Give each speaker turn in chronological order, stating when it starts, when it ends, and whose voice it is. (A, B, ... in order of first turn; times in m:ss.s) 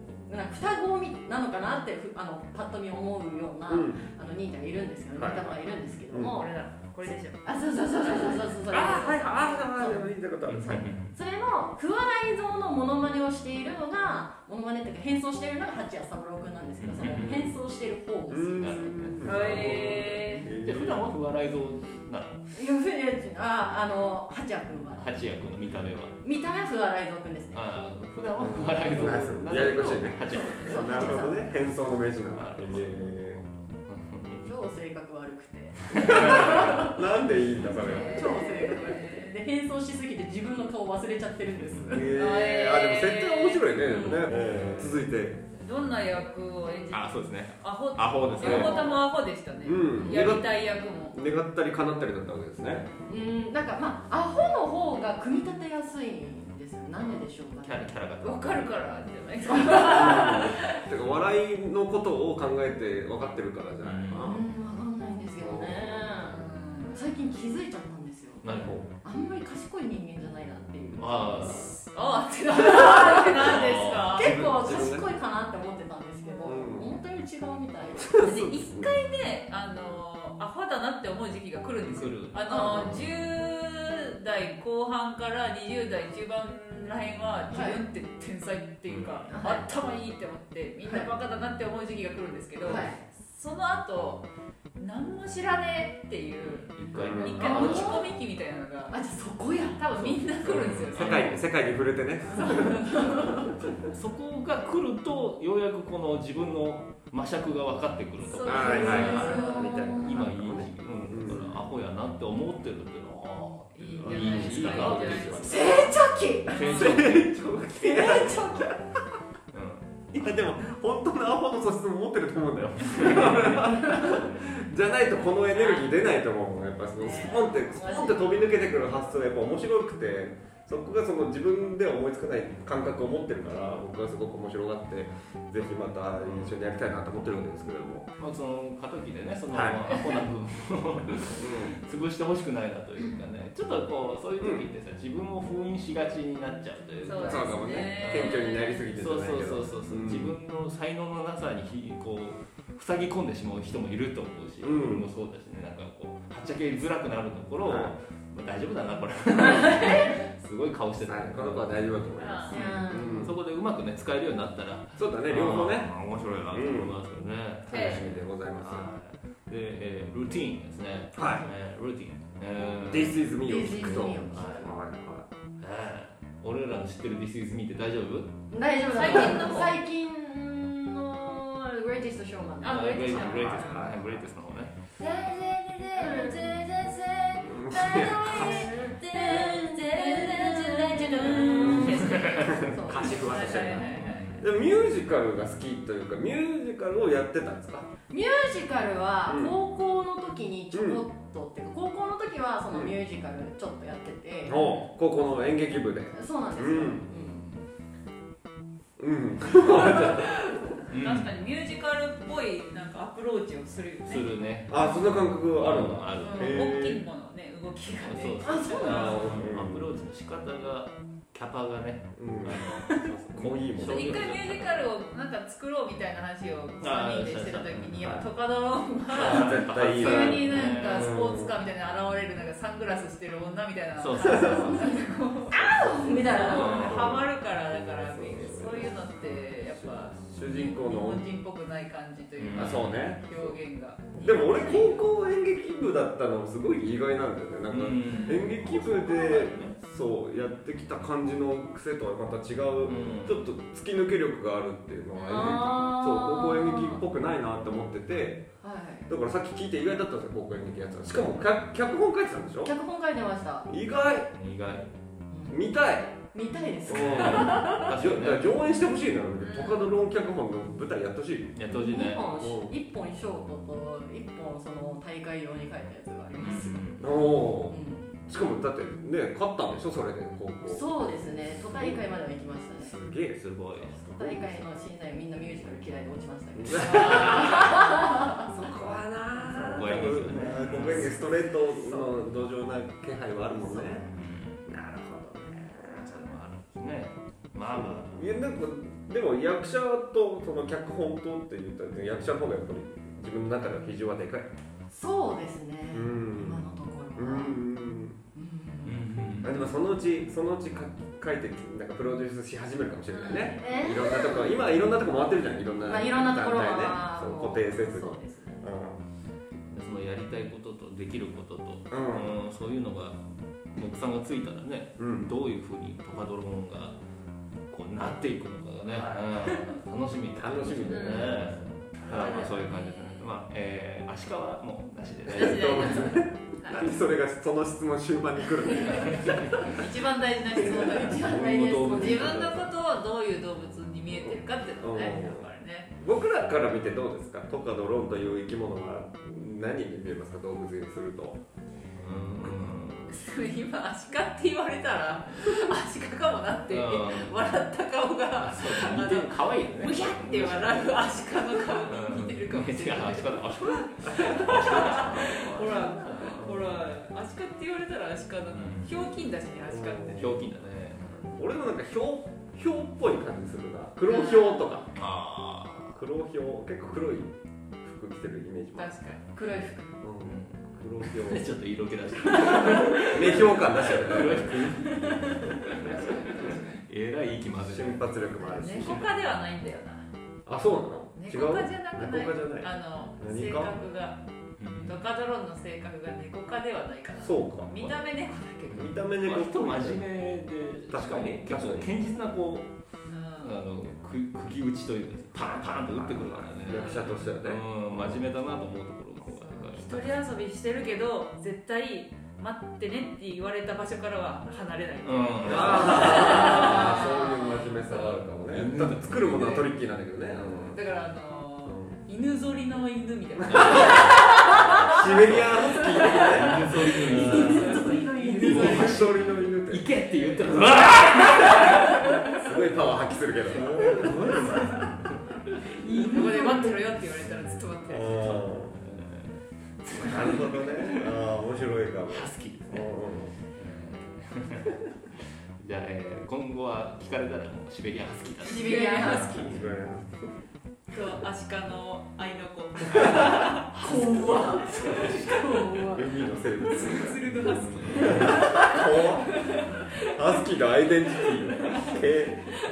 0:00.2-0:06.5 A
0:03.7-0:04.0 B
0:05.2-0:05.5 B
0:06.1-0:06.4 B
0:06.1-0:09.9 C
0:07.1-0:10.0 A
0:08.7-0:10.9 B
0:10.4-0:11.1 D
0:10.7-0:19.1 A
0:16.8-0:17.5 D
0:18.3-0:21.1 B
0:18.6-0:22.4 D
0:19.2-0:20.5 C
0:22.5-0:25.2 A
0:25.0-0:26.1 D
0:26.2-0:27.6 A
0:27.5-0:31.2 D
0:28.4-0:33.4 B
0:30.3-0:31.4 A
0:32.4-0:34.6 D
0:34.4-0:37.0 A
0:35.9-0:37.0 D
0:35.9-0:38.4 B
0:37.5-0:38.0 D
0:37.8-0:39.4 C
0:37.8-0:42.1 A
0:41.6-0:41.9 D
0:41.9-0:45.4 B
0:42.1-0:44.2 C
0:43.9-0:44.2 A
0:44.3-0:45.0 D
0:45.5-0:51.2 C
0:46.9-0:49.0 D
0:48.4-0:48.9 B
0:49.6-0:50.6 B
0:51.1-0:52.9 B
0:53.1-0:57.9 A
0:57.6-0:58.7 D
0:58.2-1:00.8 C
0:59.5-1:00.3 A
0:59.7-1:04.4 B
1:03.8-1:04.3 D
1:04.2-1:08.4 A
1:05.4-1:06.3 B
1:06.3-1:07.1 C
1:08.4-1:08.8 D
1:08.6-1:08.9 B
1:09.0-1:11.7 A
1:11.0-1:11.7 D
1:11.4-1:14.3 C
1:12.5-1:13.5 A
1:13.4-1:14.2 D
1:14.1-1:18.2 A
1:14.2-1:15.1 B
1:16.2-1:16.5 C
1:16.4-1:16.9 B
1:18.0-1:18.9 B
1:18.2-1:34.3 C
1:21.8-1:23.0 D
1:22.4-1:22.9 A
1:27.5-1:27.8 A
1:28.9-1:29.3 D
1:29.3-1:29.7 A
1:30.8-1:31.1 A
1:32.6-1:33.0 A
1:34.8-1:39.0 C
1:36.4-1:38.0 D
1:37.0-1:37.4 B
1:37.3-1:38.1 A
1:38.9-1:39.8 A
1:39.8-1:41.4 C
1:40.1-1:41.4 D
1:40.5-1:43.3 B
1:42.3-1:43.5 A
1:42.5-1:42.9 C
1:43.9-1:55.9 D
1:48.3-1:49.9 C
1:48.4-1:51.5 B
1:48.5-1:50.2 A
1:51.3-1:51.6 C
1:53.7-1:56.0 C
1:54.0-1:55.3 B
1:54.3-1:54.7 A
1:55.4-1:56.7 A
1:56.5-1:57.0 C
1:56.5-1:58.4 D
1:56.6-1:58.7 B
1:57.8-1:58.7 A
1:59.5-1:59.9 D
2:00.1-2:18.1 B
2:02.8-2:04.4 D
2:05.5-2:05.9 C
2:07.0-2:08.5 A
2:16.2-2:16.6 D
2:18.2-2:28.4 D
2:19.5-2:19.9 B
2:21.4-2:21.7 B
2:27.0-2:28.8 C
2:27.1-2:30.4 B
2:29.0-2:53.2 D
2:34.6-2:35.1 B
2:37.6-2:37.9 B
2:39.4-2:40.1 A
2:41.0-2:43.4 B
2:42.2-2:42.6 C
2:42.5-2:43.3 A
2:45.0-2:47.0 B
2:47.7-2:48.0 C
2:47.7-2:48.9 B
2:51.1-2:51.5 B
2:52.9-2:55.3 B
2:53.4-2:54.7 A
2:53.8-2:54.7 D
2:55.6-2:58.4 D
2:58.5-3:03.8 A
2:58.9-2:59.8 C
2:59.0-2:59.7 D
3:02.6-3:04.8 D
3:02.6-3:03.5 C
3:03.2-3:04.3 B
3:05.0-3:14.4 C
3:05.0-3:05.3 A
3:05.9-3:13.3 A
3:07.4-3:08.7 B
3:11.4-3:14.5 D
3:11.5-3:17.9 B
3:18.1-3:24.6 A
3:19.2-3:19.5 B
3:20.7-3:21.0 B
3:22.7-3:23.0 B
3:24.4-3:27.0 B
3:26.1-3:27.5 A
3:29.0-3:30.4 B
3:29.6-3:34.3 C
3:30.9-3:31.3 D
3:34.1-3:36.6 D
3:34.7-3:37.0 B
3:36.2-3:39.5 C
3:38.0-3:44.8 D
3:38.4-3:39.1 A
3:38.8-3:39.9 B
3:42.2-3:44.3 B
3:43.8-4:05.0 C
3:46.8-3:48.2 D
3:49.1-3:51.5 B
3:49.1-3:51.1 D
3:54.0-3:54.9 D
3:54.2-3:54.7 B
3:54.4-3:56.9 A
3:55.8-4:01.2 B
3:56.5-3:57.2 D
4:02.4-4:03.1 D
4:02.5-4:03.6 B
4:04.1-4:18.5 B
4:07.7-4:09.8 D
4:08.1-4:08.4 C
4:12.8-4:13.4 D
4:15.2-4:17.0 A
4:18.6-4:19.1 A
4:19.1-4:22.7 B
4:22.6-4:23.7 A
4:23.7-4:24.3 B
4:24.3-4:24.9 D
4:25.3-4:25.6 A
4:25.5-4:26.1 B
4:26.3-4:27.8 A
4:26.9-4:28.5 D
4:26.9-4:31.6 B
4:29.4-4:29.9 C
4:31.6-4:32.3 D
4:31.7-4:36.9 A
4:32.4-4:32.7 B
4:36.4-4:37.1 D
4:37.0-4:40.9 B
4:37.7-4:38.2 A
4:40.6-4:43.0 A
4:42.8-4:44.5 B
4:43.3-4:44.4 D
4:44.0-4:48.4 A
4:46.6-4:47.8 B
4:46.9-4:47.6 C
4:47.0-4:47.5 D
4:48.4-4:54.0 B
4:49.5-4:51.2 D
4:53.5-4:54.1 A
4:54.1-4:54.7 D
4:54.6-4:56.2 B
4:55.8-4:58.2 D
4:57.7-5:04.5 B
5:04.9-5:07.6 A
5:05.9-5:08.2 B
5:08.3-5:09.0 A
5:08.8-5:09.6 D
5:09.4-5:19.0 B
5:13.1-5:13.6 C
5:13.3-5:14.6 A
5:15.8-5:18.6 A
5:19.7-5:27.0 D
5:21.9-5:22.4 B
5:25.0-5:25.3 B
5:27.7-5:36.1 D
5:28.9-5:29.4 B
5:30.4-5:32.4 B
5:30.9-5:31.4 C
5:32.0-5:33.3 C
5:32.1-5:32.5 A
5:35.3-5:39.7 B
5:35.3-5:36.9 C
5:38.8-5:39.7 D
5:39.6-5:41.4 C
5:40.6-5:41.0 B
5:40.6-5:42.4 A
5:41.1-5:42.7 D
5:41.9-5:45.9 C
5:44.3-5:51.4 B
5:51.9-5:53.2 D
5:53.1-6:10.4 C
5:56.7-5:57.4 D
5:58.4-6:01.1 D
6:01.6-6:06.8 D
6:08.5-6:08.9 D
6:09.7-6:10.5 B
6:10.2-6:11.4 D
6:11.4-6:14.9 B
6:14.0-6:14.8 C
6:14.9-6:16.0 D
6:15.9-6:19.0 B
6:18.7-6:19.2 C
6:19.3-6:20.0 A
6:20.0-6:21.6 B
6:20.2-6:29.1 D
6:22.4-6:22.9 A
6:22.4-6:24.6 B
6:24.8-6:25.6 A
6:25.8-6:26.8 C
6:27.6-6:29.0 B
6:28.5-6:30.1 C
6:30.4-6:32.7 B
6:31.2-6:34.2 C
6:33.2-6:33.7 B
6:34.6-6:35.0 D
6:34.8-6:39.0 C
6:37.2-6:37.9 B
6:38.7-6:40.0 B
6:38.7-6:42.7 D
6:40.9-6:41.9 B
6:43.0-6:43.6 C
6:43.4-6:50.1 D
6:45.4-6:48.2 B
6:46.7-6:47.1 C
6:49.2-6:58.2 C
6:55.0-6:57.1 D
6:55.4-7:00.8 B
6:58.4-6:59.6 D
6:59.2-6:59.7 C
7:00.7-7:05.1 C
7:01.6-7:02.0 B
7:03.5-7:04.2 B
7:03.5-7:04.2 D
7:04.3-7:04.8 A
7:04.8-7:07.8 B
7:05.2-7:05.5 D
7:05.6-7:06.3 C
7:05.8-7:08.9 A
7:06.1-7:12.1 D
7:07.0-7:09.2 C
7:08.4-7:09.9 B
7:10.0-7:11.5 C
7:12.4-7:14.8 B
7:13.5-7:15.3 D
7:15.8-7:18.5 C
7:15.9-7:16.7 A
7:17.2-7:17.6 D
7:17.9-7:18.7 B
7:18.2-7:21.1 D
7:19.9-7:23.3 B
7:22.1-7:22.9 D
7:23.5-7:24.8 D
7:25.6-7:29.8 D
7:28.4-7:29.5 C
7:28.4-7:29.5 A
7:29.4-7:30.3 B
7:30.9-7:33.6 C
7:32.9-7:35.6 D
7:33.8-7:36.2 A
7:35.9-7:37.2 B
7:36.6-7:40.4 C
7:36.9-7:38.5 D
7:37.9-7:42.5 B
7:38.0-7:38.6 A
7:41.2-7:42.0 C